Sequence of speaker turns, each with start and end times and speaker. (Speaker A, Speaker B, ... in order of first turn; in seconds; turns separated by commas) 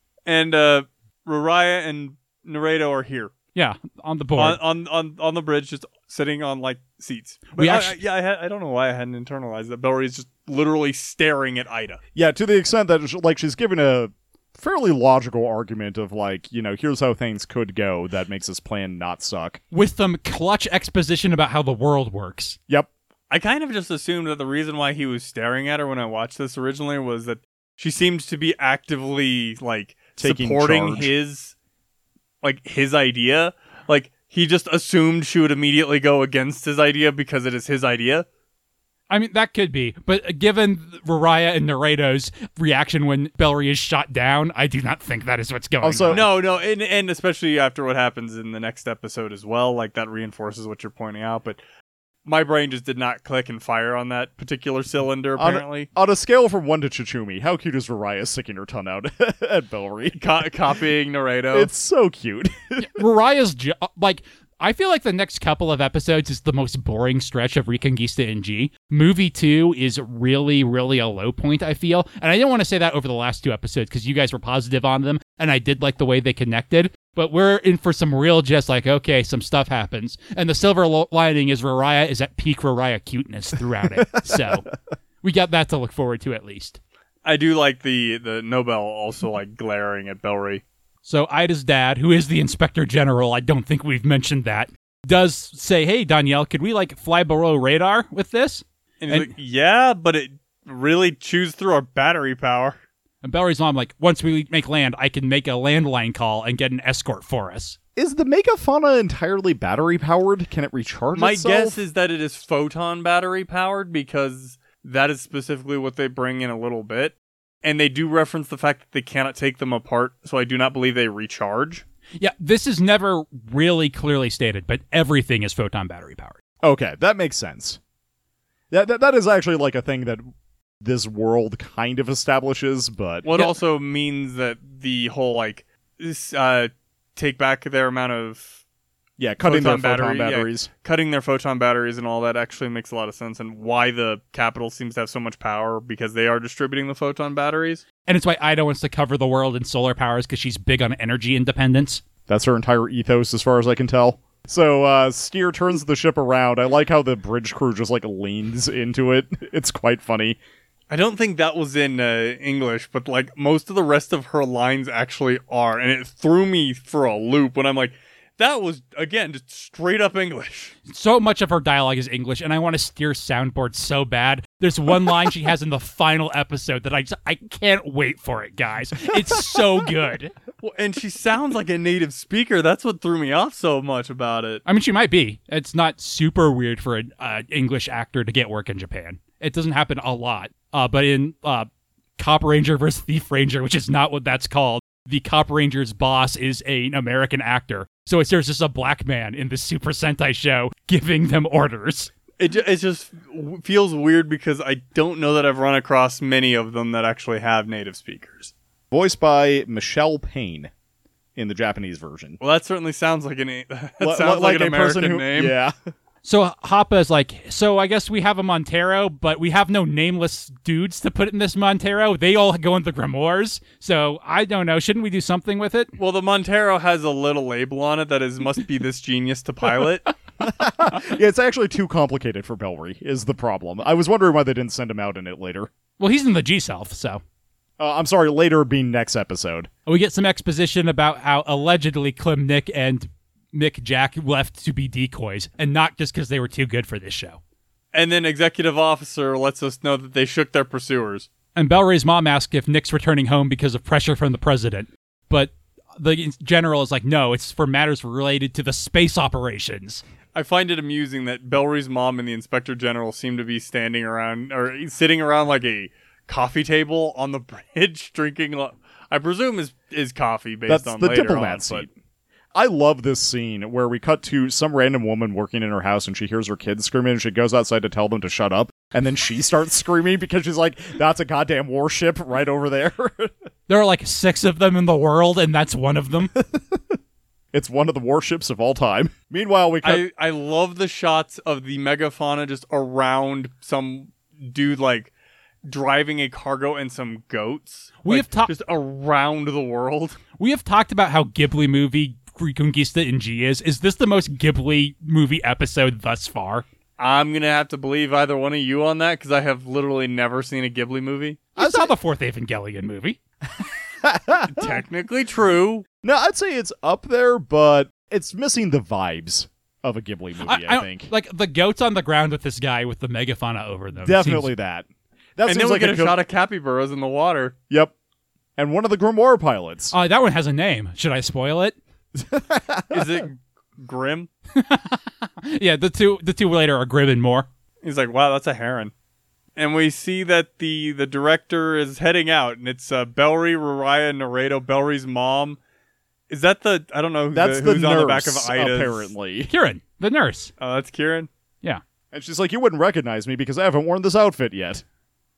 Speaker A: 0.2-3.3, Speaker B: 3.5-4.6, Speaker A: 4.3-12.0, Speaker B: 7.5-8.0, Speaker C: 12.1-19.6, Speaker B: 19.7-22.6, Speaker A: 23.3-31.5, Speaker C: 30.2-31.1, Speaker A: 32.4-38.2, Speaker B: 39.1-46.3, Speaker C: 45.8-46.3, Speaker A: 46.1-51.6, Speaker A: 52.2-55.9, Speaker C: 55.4-60.2, Speaker A: 60.1-61.7, Speaker C: 61.5-62.9, Speaker B: 62.8-84.7, Speaker B: 85.2-86.8, Speaker A: 87.2-90.6, Speaker B: 91.0-99.3, Speaker A: 99.0-102.8, Speaker B: 103.2-107.8, Speaker C: 108.0-111.8, Speaker A: 111.1-121.8, Speaker B: 122.2-126.4, Speaker C: 126.6-127.8, Speaker C: 128.7-130.2, Speaker C: 130.8-133.3, Speaker A: 133.2-138.6, Speaker C: 139.2-140.7, Speaker A: 139.4-147.8, Speaker B: 148.0-152.0, Speaker C: 152.3-160.4, Speaker A: 160.9-170.7, Speaker B: 170.8-180.3, Speaker A: 180.6-184.6, Speaker B: 184.7-202.1, Speaker A: 202.4-208.5, Speaker C: 208.9-210.7, Speaker C: 211.3-212.4, Speaker A: 212.4-215.6, Speaker C: 214.0-215.7, Speaker B: 216.2-225.9, Speaker A: 226.0-230.1, Speaker C: 230.4-235.7, Speaker B: 236.0-237.2, Speaker C: 237.8-239.7, Speaker B: 239.8-247.4, Speaker A: 247.9-251.3, Speaker B: 251.6-260.0, Speaker A: 260.3-271.9, Speaker C: 270.7-271.9, Speaker C: 272.5-283.3, Speaker B: 283.7-286.3, Speaker C: 286.4-286.8, Speaker C: 287.5-290.0, Speaker A: 289.8-295.1, Speaker A: 295.6-300.2, Speaker B: 298.0-298.5, Speaker B: 300.4-306.6, Speaker A: 307.0-311.4, Speaker C: 311.6-311.9, Speaker B: 311.6-313.2, Speaker C: 314.0-314.7, Speaker A: 314.5-315.9, Speaker C: 316.0-321.1, Speaker B: 320.4-324.5, Speaker C: 324.0-326.2, Speaker A: 325.4-327.5, Speaker C: 328.6-329.9, Speaker B: 329.9-331.8, Speaker C: 332.1-333.2, Speaker A: 332.9-334.3, Speaker B: 334.5-337.5, Speaker A: 337.8-338.9, Speaker A: 339.6-345.6, Speaker A: 346.3-349.1, Speaker C: 347.3-349.5, Speaker B: 349.5-350.5, Speaker A: 350.6-351.3, Speaker C: 352.1-354.8